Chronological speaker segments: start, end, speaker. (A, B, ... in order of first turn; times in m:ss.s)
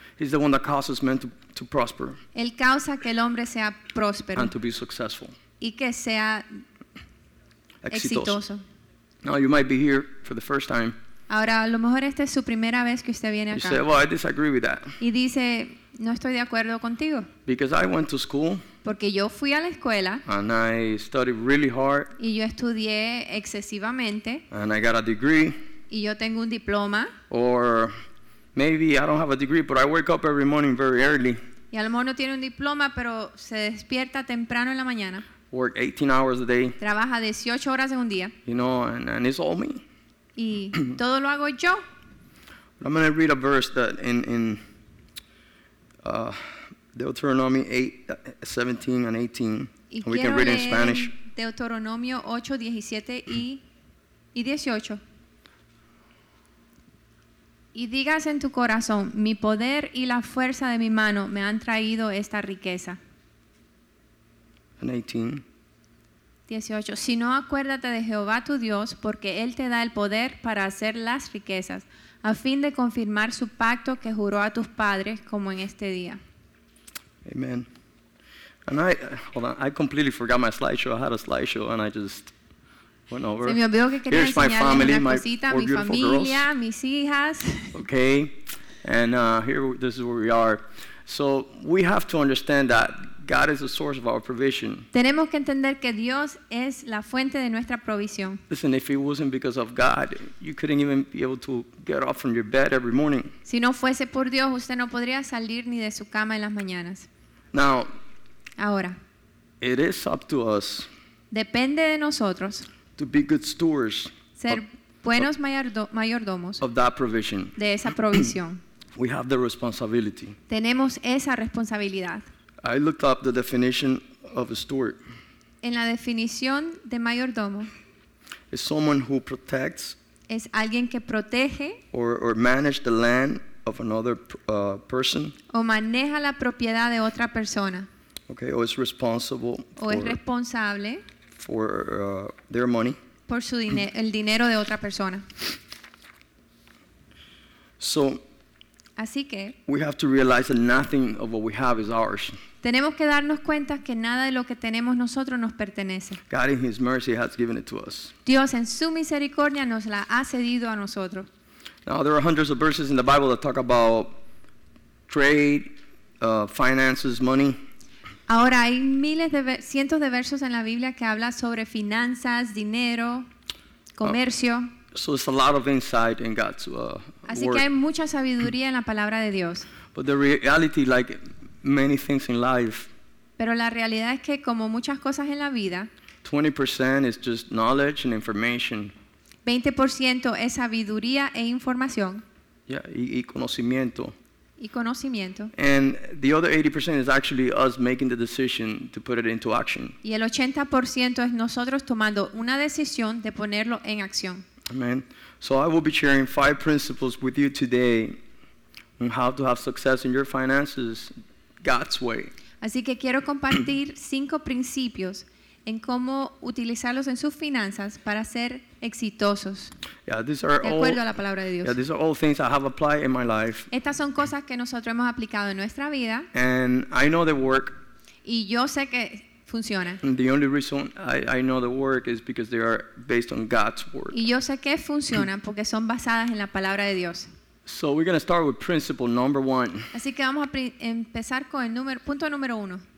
0:00.2-0:02.2 A
0:02.3-0:04.5 B
0:04.4-0:05.3 A
0:05.6-0:06.4 B
0:07.8-0:08.4 A
0:07.9-0:08.6 B
0:09.2-0:11.0 A
0:11.3-0:13.8 B
0:13.5-0:15.0 A
0:15.0-0:17.3 B
0:17.5-0:18.6 A
0:18.8-0:20.2 B
0:20.2-0:22.1 A
0:22.2-0:24.4 B
0:24.5-0:25.6 A
0:25.9-0:27.1 B
0:27.3-0:27.9 A
0:28.5-0:31.4 A
0:31.7-0:35.2 B
0:35.5-0:36.8 A
0:36.8-0:38.3 B
0:38.4-0:39.8 A
0:40.4-0:41.8 B
0:42.8-0:44.6 A
0:46.0-0:51.1 A
0:49.9-0:53.6 B
0:54.3-0:55.0 B
0:57.7-1:03.0 B
1:04.8-1:05.4 A
1:06.5-1:16.2 B
1:17.2-1:17.7 A
1:18.7-1:22.3 A
1:23.1-1:26.5 A
1:23.4-1:27.7 B
1:27.7-1:34.9 A
1:34.9-1:38.4 B
1:38.5-1:43.3 A
1:43.4-1:47.1 B
1:47.5-1:47.9 A
1:48.6-1:49.0 B
1:49.6-1:50.9 A
1:51.3-1:52.7 B
1:53.0-1:54.6 A
1:54.4-1:56.6 B
1:56.6-1:57.6 A
1:57.6-1:58.6 B
1:58.9-2:00.4 A
2:00.5-2:02.2 B
2:02.6-2:05.0 A
2:05.6-2:07.7 B
2:08.5-2:10.0 A
2:10.3-2:11.8 B
2:11.9-2:15.3 A
2:15.5-2:17.9 B
2:18.3-2:20.2 A
2:19.8-2:21.0 B
2:21.4-2:23.0 A
2:23.3-2:25.3 B
2:27.8-2:28.2 A
2:29.0-2:29.6 B
2:29.6-2:32.4 A
2:32.6-2:36.2 B
2:36.3-2:38.1 A
2:38.2-2:41.3 B
2:41.8-2:44.2 A
2:45.1-2:47.6 A
2:48.3-2:53.3 B
2:54.0-2:54.7 B
2:54.9-2:57.6 A
2:57.3-2:59.7 B
2:59.9-3:02.9 A
3:03.4-3:05.9 B
3:06.2-3:08.9 A
3:09.4-3:12.2 B
3:12.7-3:14.1 A
3:14.6-3:15.5 B
3:15.5-3:20.0 A
3:20.0-3:24.4 B
3:24.7-3:28.2 A
3:29.0-3:32.3 A
3:32.6-3:39.7 B
3:40.0-3:41.0 A
3:40.6-3:41.8 B
3:41.6-3:43.7 A
3:43.7-3:46.3 B
3:46.3-3:47.8 A
3:48.2-3:50.0 B
3:50.0-3:54.2 A
3:54.1-3:57.3 B
3:57.6-3:59.9 A
3:59.9-4:02.8 B